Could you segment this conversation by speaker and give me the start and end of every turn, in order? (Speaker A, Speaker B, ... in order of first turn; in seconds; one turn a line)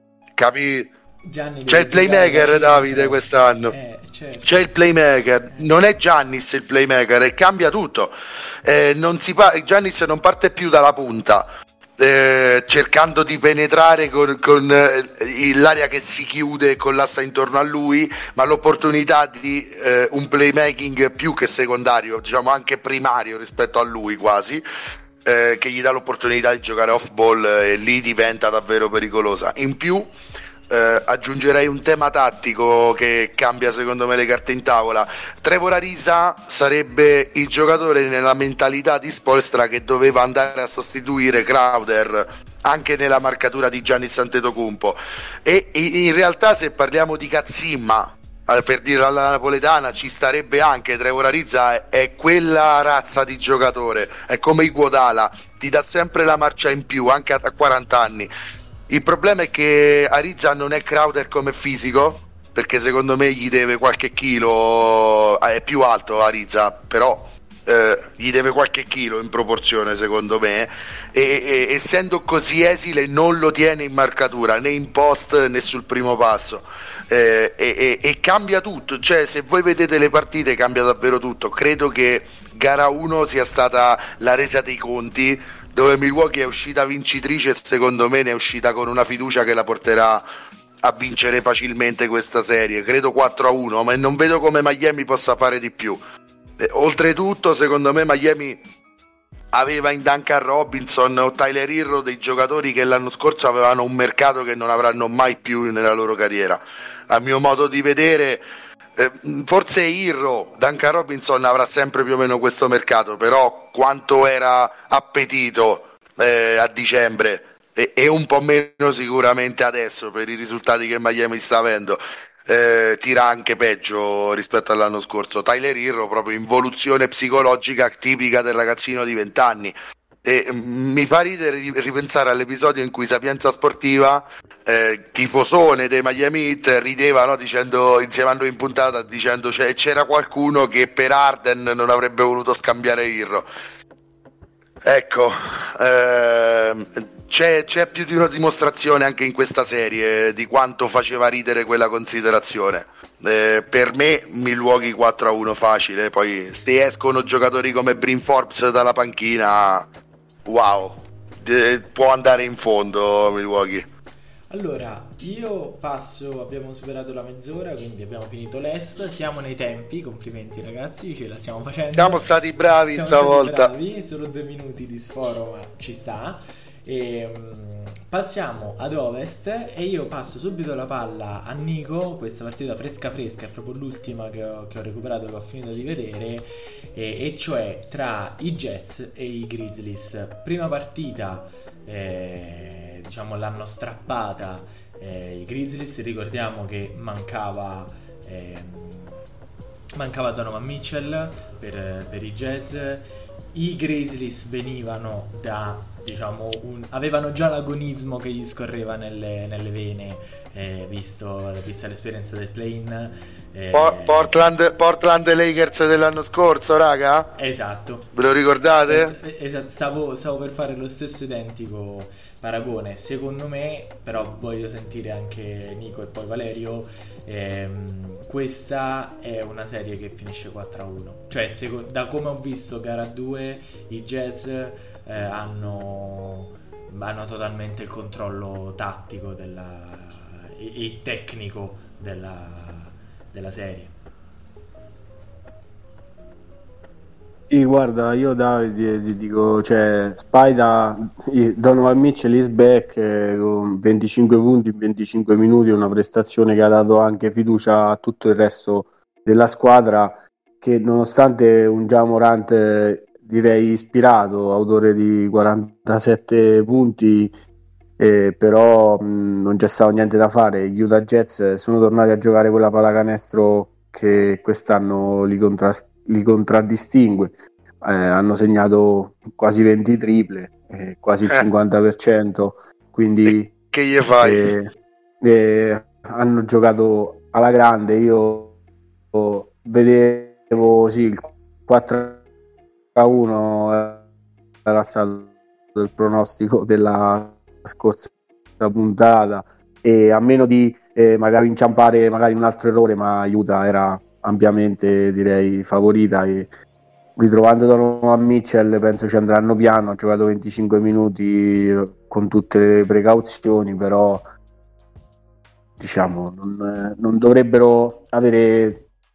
Speaker A: 0.4-0.9
Speaker B: 1.2-4.7
Speaker A: 1.7-3.7
Speaker A: 4.4-24.6
Speaker A: 25.2-30.1
Speaker A: 30.7-58.3
Speaker A: 58.9-90.2
Speaker A: 90.8-96.0
Speaker A: 96.6-98.6
Speaker A: 99.5-108.4
Speaker A: 109.0-143.5
Speaker A: 144.8-159.9
Speaker A: 160.4-163.9
Speaker B: 164.5-172.3
Speaker A: 171.9-173.7
Speaker B: 172.9-199.2
Speaker B: 199.9-214.4
Speaker A: 213.7-217.3
Speaker B: 217.3-218.1
Speaker A: 218.1-219.2
Speaker B: 218.9-243.9
Speaker C: 247.5-267.3
Speaker C: 268.0-283.5
Speaker A: 283.3-284.4
Speaker C: 284.2-288.6
Speaker C: 289.1-292.2
Speaker C: 292.9-294.1
Speaker C: 294.6-306.5
Speaker C: 307.1-314.3
Speaker C: 315.8-318.9